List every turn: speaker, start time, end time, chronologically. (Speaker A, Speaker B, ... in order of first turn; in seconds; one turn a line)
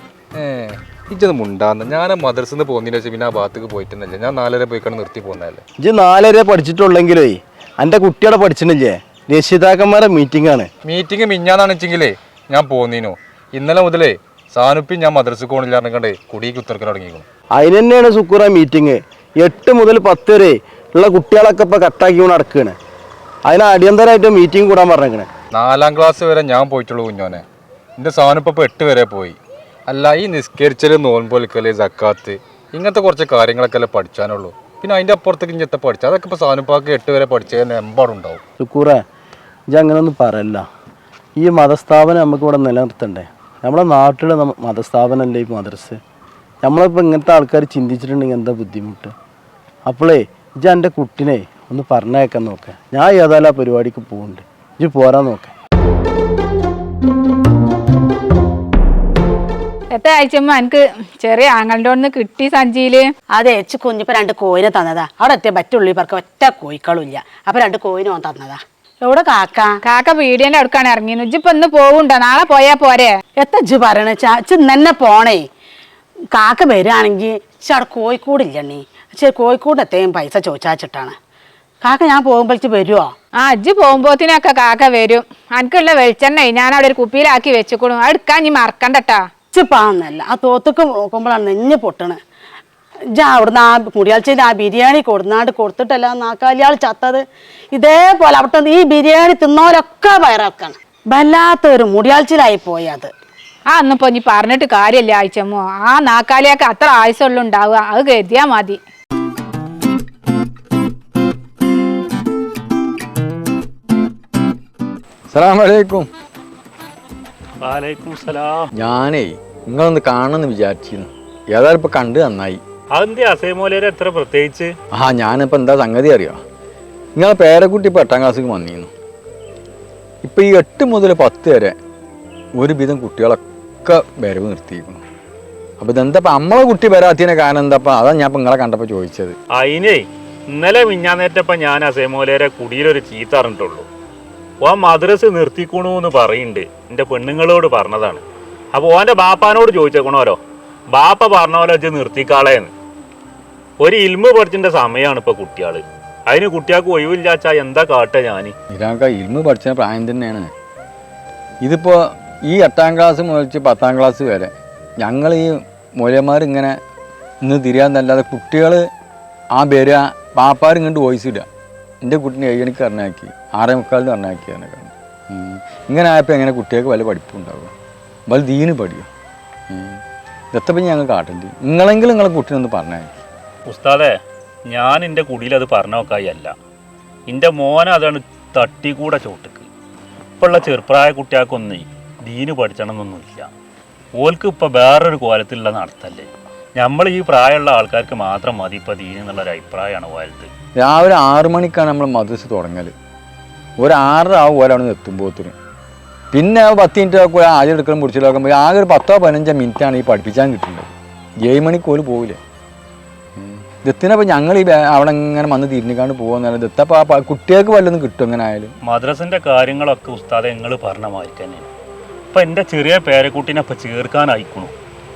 Speaker A: 0.3-5.6
Speaker B: 5.8-10.7
Speaker A: 10.8-17.3
Speaker B: 17.6-22.8
Speaker B: 23.5-25.3
Speaker A: 25.5-27.4
Speaker A: 28.0-38.4
Speaker B: 38.6-39.0
Speaker B: 39.7-40.7
Speaker B: 41.4-46.0
Speaker B: 46.6-49.1
Speaker B: 49.9-55.5
Speaker C: 59.9-63.1
Speaker D: 63.3-69.7
Speaker C: 69.8-73.2
Speaker D: 73.4-75.5
Speaker D: 76.3-81.2
Speaker D: 81.8-83.1
Speaker C: 83.4-89.2
Speaker D: 89.5-92.2
Speaker D: 93.2-103.1
Speaker C: 103.7-108.8
Speaker E: 115.3-116.1
Speaker F: 117.6-118.7
Speaker E: 118.8-122.6
Speaker F: 122.9-124.8
Speaker E: 124.9-126.4
Speaker E: 127.2-128.9
Speaker E: 130.2-131.8
Speaker E: 132.6-135.0
Speaker E: 135.8-139.4
Speaker F: 139.5-143.9
Speaker F: 144.6-148.2
Speaker F: 148.7-150.4
Speaker F: 150.9-152.7
Speaker F: 153.8-158.5
Speaker E: 158.7-160.5
Speaker E: 161.6-166.8
Speaker E: 167.4-168.8
Speaker E: 169.6-171.5
Speaker E: 172.0-177.7
Speaker E: 178.3-179.1
Speaker E: 179.7-180.0
Speaker E: 180.5-183.2
Speaker F: 183.7-184.1
Speaker F: 184.7-186.5
Speaker F: 187.3-189.7
Speaker F: 190.4-193.5
Speaker F: 194.2-200.5
Speaker E: 200.8-202.9
Speaker E: 203.8-205.5
Speaker E: 206.3-210.9
Speaker E: 211.4-212.4
Speaker E: 213.4-218.7
Speaker F: 218.9-221.7
Speaker F: 222.3-224.7